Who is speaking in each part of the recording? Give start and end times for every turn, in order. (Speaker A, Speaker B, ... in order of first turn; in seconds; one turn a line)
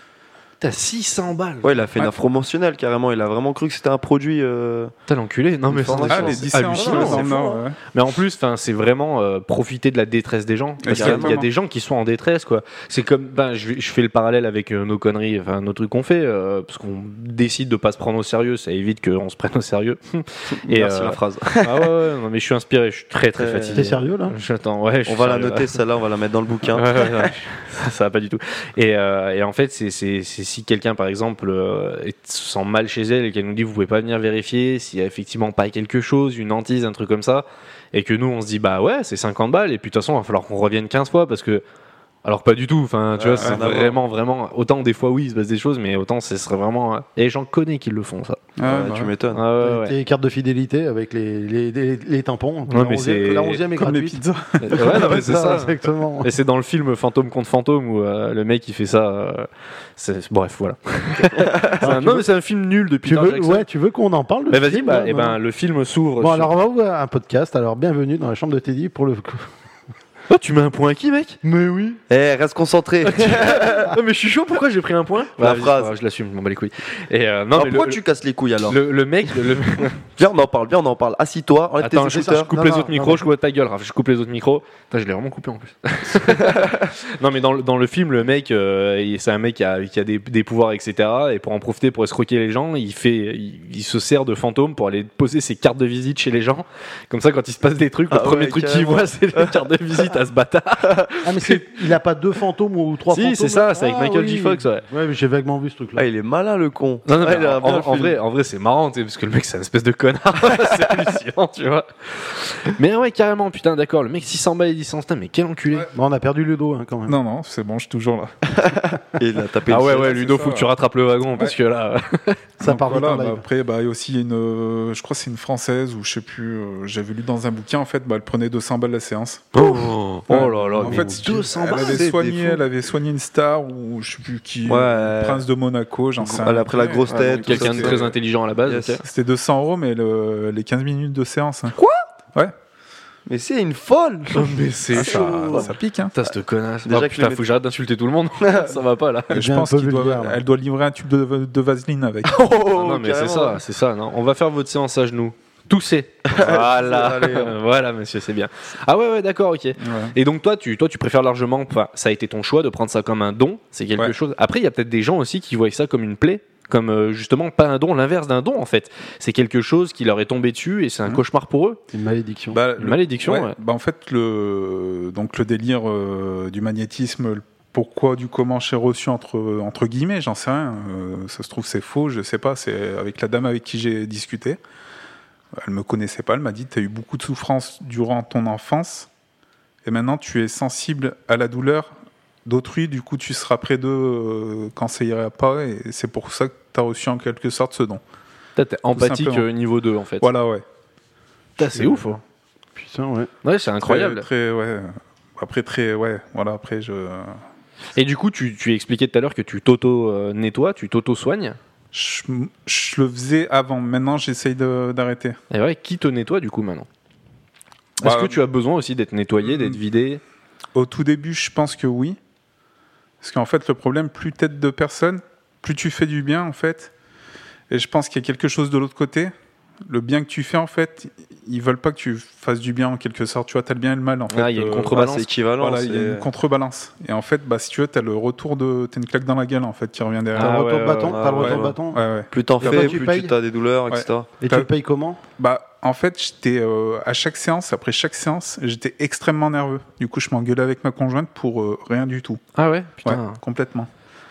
Speaker A: 0.6-1.7
Speaker B: 1.6-4.9
Speaker A: 5.1-7.3
Speaker B: 5.7-7.6
Speaker C: 6.0-7.8
Speaker A: 7.9-25.8
Speaker C: 10.8-11.5
Speaker B: 10.9-11.4
Speaker B: 20.5-21.9
Speaker B: 23.4-23.9
Speaker D: 23.8-24.4
Speaker B: 25.1-27.3
Speaker A: 26.7-41.6
Speaker A: 42.2-48.4
Speaker B: 43.1-44.0
Speaker C: 43.4-43.7
Speaker C: 48.6-49.1
Speaker B: 48.6-49.4
Speaker A: 49.3-50.0
Speaker D: 49.6-56.3
Speaker A: 52.7-53.6
Speaker C: 53.7-55.2
Speaker A: 54.6-63.6
Speaker D: 61.8-62.3
Speaker D: 63.0-65.4
Speaker A: 64.5-66.5
Speaker D: 66.2-69.5
Speaker A: 70.3-71.4
Speaker D: 71.4-72.0
Speaker B: 72.1-74.0
Speaker A: 73.0-78.0
Speaker B: 75.4-75.9
Speaker B: 77.5-78.8
Speaker A: 78.7-80.0
Speaker B: 80.0-82.5
Speaker A: 81.8-101.9
Speaker D: 82.1-83.2
Speaker B: 98.1-99.6
Speaker D: 101.2-106.1
Speaker A: 103.1-104.8
Speaker B: 106.0-108.2
Speaker A: 107.1-115.9
Speaker D: 115.9-117.2
Speaker C: 117.1-118.5
Speaker B: 118.6-120.2
Speaker A: 119.7-122.4
Speaker C: 119.9-120.7
Speaker D: 122.6-123.4
Speaker C: 122.6-129.5
Speaker B: 129.6-130.2
Speaker A: 129.6-132.1
Speaker C: 130.3-138.0
Speaker D: 130.8-131.3
Speaker B: 131.7-132.6
Speaker B: 134.7-135.5
Speaker B: 136.2-138.1
Speaker A: 137.1-139.0
Speaker B: 138.7-139.0
Speaker C: 139.0-141.8
Speaker B: 143.3-145.7
Speaker A: 144.3-149.4
Speaker C: 144.9-146.2
Speaker B: 146.8-147.4
Speaker C: 149.3-152.3
Speaker D: 149.3-150.4
Speaker B: 152.2-153.6
Speaker A: 152.7-171.8
Speaker B: 156.3-157.6
Speaker C: 159.8-160.2
Speaker D: 171.9-172.6
Speaker C: 172.5-184.6
Speaker A: 172.8-173.6
Speaker C: 185.6-189.1
Speaker C: 189.8-191.9
Speaker C: 192.4-198.0
Speaker A: 198.6-200.3
Speaker C: 198.9-199.5
Speaker C: 200.2-200.6
Speaker A: 201.6-202.2
Speaker C: 201.6-202.1
Speaker D: 202.8-203.3
Speaker A: 203.4-204.3
Speaker C: 203.8-207.4
Speaker A: 208.0-211.6
Speaker C: 211.9-215.4
Speaker A: 215.5-216.9
Speaker A: 218.0-220.2
Speaker C: 218.0-218.4
Speaker C: 219.4-219.8
Speaker C: 220.8-222.2
Speaker C: 223.2-226.9
Speaker C: 227.7-229.3
Speaker C: 229.9-235.0
Speaker A: 234.3-235.3
Speaker B: 234.9-236.3
Speaker C: 235.6-240.6
Speaker A: 240.3-241.3
Speaker D: 240.4-242.0
Speaker B: 241.1-241.8
Speaker C: 241.4-243.0
Speaker B: 242.3-244.3
Speaker D: 242.6-243.3
Speaker C: 243.9-244.7
Speaker D: 244.4-245.2
Speaker C: 245.4-252.4
Speaker A: 252.6-253.4
Speaker C: 253.0-253.9